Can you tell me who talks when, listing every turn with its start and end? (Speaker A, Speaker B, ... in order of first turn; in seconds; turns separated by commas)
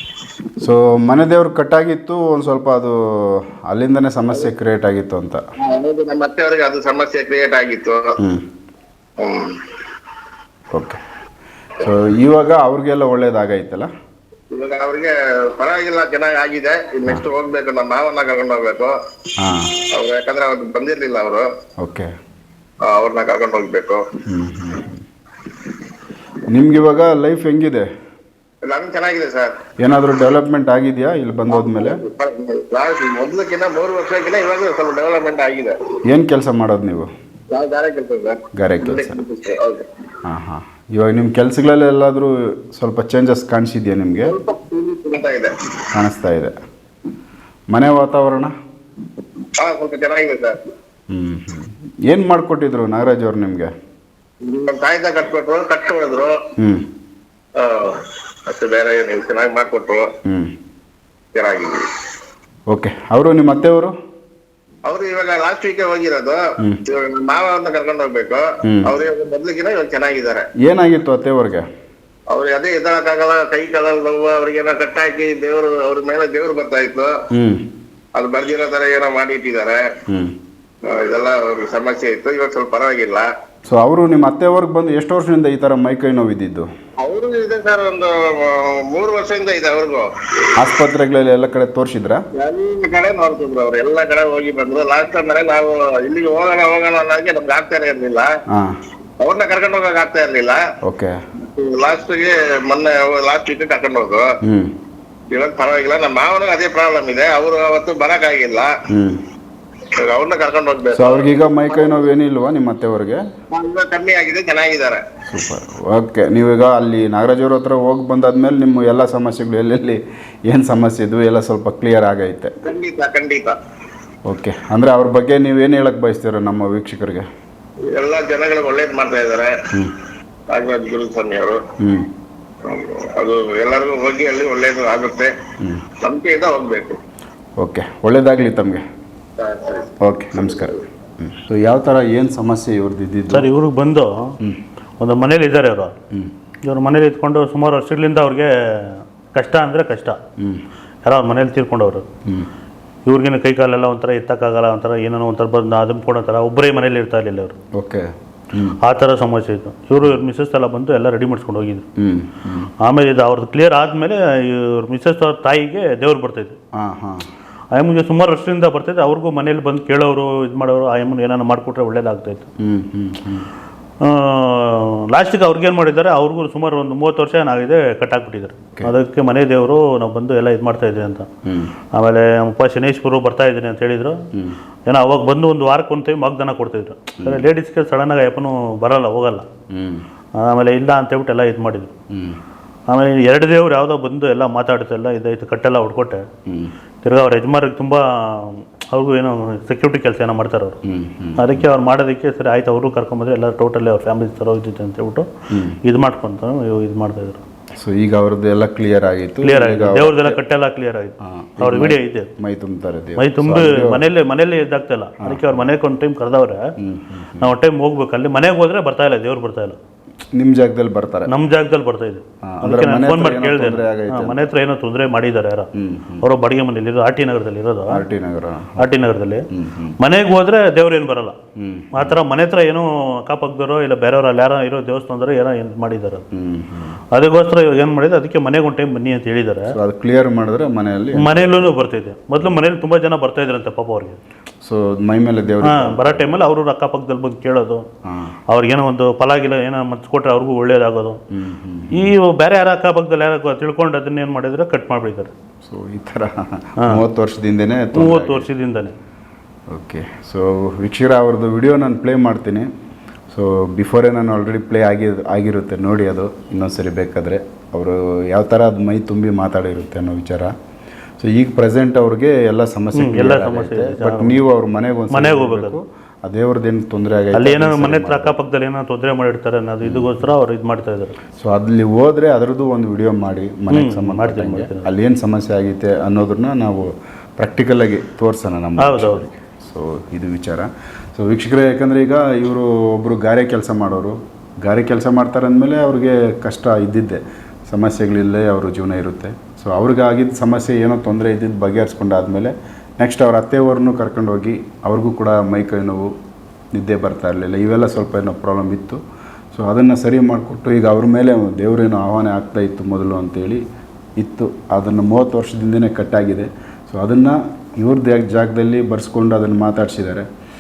Speaker A: 0.6-5.4, Speaker B: 5.6-8.0, Speaker A: 8.2-8.4, Speaker B: 9.2-9.5, Speaker A: 10.7-11.0, Speaker A: 11.8-13.9, Speaker B: 14.5-18.9, Speaker A: 19.4-19.7, Speaker B: 19.9-21.5, Speaker A: 21.8-22.1, Speaker B: 22.8-24.0, Speaker A: 24.3-25.0, Speaker B: 25.5-25.8, Speaker A: 26.5-27.9, Speaker B: 28.6-29.5, Speaker A: 29.8-32.0, Speaker B: 31.5-35.8, Speaker A: 36.1-37.1, Speaker B: 37.5-39.9, Speaker A: 38.5-39.2, Speaker A: 40.2-44.4, Speaker B: 44.2-45.5, Speaker A: 45.9-46.5, Speaker A: 47.7-48.5, Speaker B: 49.6-50.6, Speaker A: 51.1-53.7, Speaker B: 54.4-56.4, Speaker A: 56.6-56.9, Speaker B: 57.6-60.1, Speaker A: 60.2-60.5, Speaker B: 61.3-61.8, Speaker A: 62.7-63.9, Speaker B: 64.8-70.4, Speaker A: 68.6-68.9, Speaker A: 70.6-71.7, Speaker B: 72.3-77.1, Speaker A: 77.3-77.6, Speaker B: 78.1-79.8, Speaker A: 80.1-80.3, Speaker B: 80.8-83.2, Speaker A: 83.7-86.7, Speaker B: 87.0-90.6, Speaker A: 90.6-92.2, Speaker B: 92.4-98.3, Speaker A: 98.5-98.8, Speaker B: 99.2-100.6, Speaker A: 100.8-101.1, Speaker B: 101.5-104.2, Speaker A: 104.4-104.7, Speaker B: 105.3-108.7, Speaker A: 108.9-109.2, Speaker B: 110.0-112.1, Speaker A: 110.9-113.2, Speaker B: 113.5-115.0, Speaker A: 115.3-122.5, Speaker B: 122.6-123.5, Speaker A: 124.2-127.2, Speaker B: 127.9-129.5, Speaker B: 130.5-131.6, Speaker A: 131.8-132.1, Speaker B: 132.6-135.3, Speaker B: 136.0-137.0, Speaker A: 137.6-138.8, Speaker B: 139.4-139.9, Speaker A: 140.0-143.5, Speaker B: 140.4-140.8, Speaker C: 143.3-144.3, Speaker C: 145.0-145.9, Speaker C: 146.6-150.2, Speaker C: 151.0-152.1, Speaker C: 153.1-157.5, Speaker A: 157.8-158.8, Speaker C: 158.8-161.8, Speaker A: 162.0-162.7, Speaker C: 162.8-166.6, Speaker A: 166.8-167.2, Speaker C: 167.7-172.5, Speaker A: 172.6-173.5, Speaker C: 174.0-181.3, Speaker A: 181.4-181.7, Speaker C: 181.9-184.2, Speaker A: 184.3-184.6, Speaker C: 184.9-189.5, Speaker A: 187.2-187.5, Speaker A: 189.7-190.1, Speaker C: 190.4-191.9, Speaker A: 192.1-192.4, Speaker C: 192.9-196.2, Speaker A: 196.5-196.7, Speaker C: 197.0-200.8, Speaker A: 200.8-201.7, Speaker C: 201.4-205.3, Speaker A: 205.5-205.8, Speaker C: 205.8-207.4, Speaker A: 207.8-210.4, Speaker C: 209.4-212.3, Speaker A: 211.2-214.1, Speaker C: 213.2-216.6, Speaker A: 215.2-215.7, Speaker A: 216.8-217.5, Speaker C: 217.4-219.8, Speaker A: 220.3-221.3, Speaker C: 221.3-225.7, Speaker A: 222.4-224.4, Speaker A: 225.8-226.2, Speaker C: 226.2-228.0, Speaker A: 227.9-228.9, Speaker C: 228.8-229.4, Speaker A: 229.5-230.0, Speaker C: 230.0-231.4, Speaker A: 231.6-232.2, Speaker C: 231.9-236.2, Speaker A: 236.3-237.0, Speaker C: 237.1-239.7, Speaker A: 239.7-241.8, Speaker C: 241.2-244.2, Speaker A: 244.6-246.3, Speaker C: 245.6-247.8, Speaker A: 248.0-248.4, Speaker C: 248.5-251.2, Speaker A: 251.3-252.1, Speaker C: 251.9-255.3, Speaker A: 255.6-258.5, Speaker C: 257.9-258.9, Speaker A: 259.7-262.7, Speaker A: 263.3-270.5, Speaker A: 271.2-278.4, Speaker C: 272.9-274.4, Speaker C: 275.1-275.8, Speaker C: 277.3-281.1, Speaker A: 279.8-280.3, Speaker A: 281.4-306.1, Speaker C: 283.7-284.9, Speaker C: 288.8-289.2, Speaker A: 306.7-309.0, Speaker A: 309.5-313.6, Speaker A: 314.2-320.2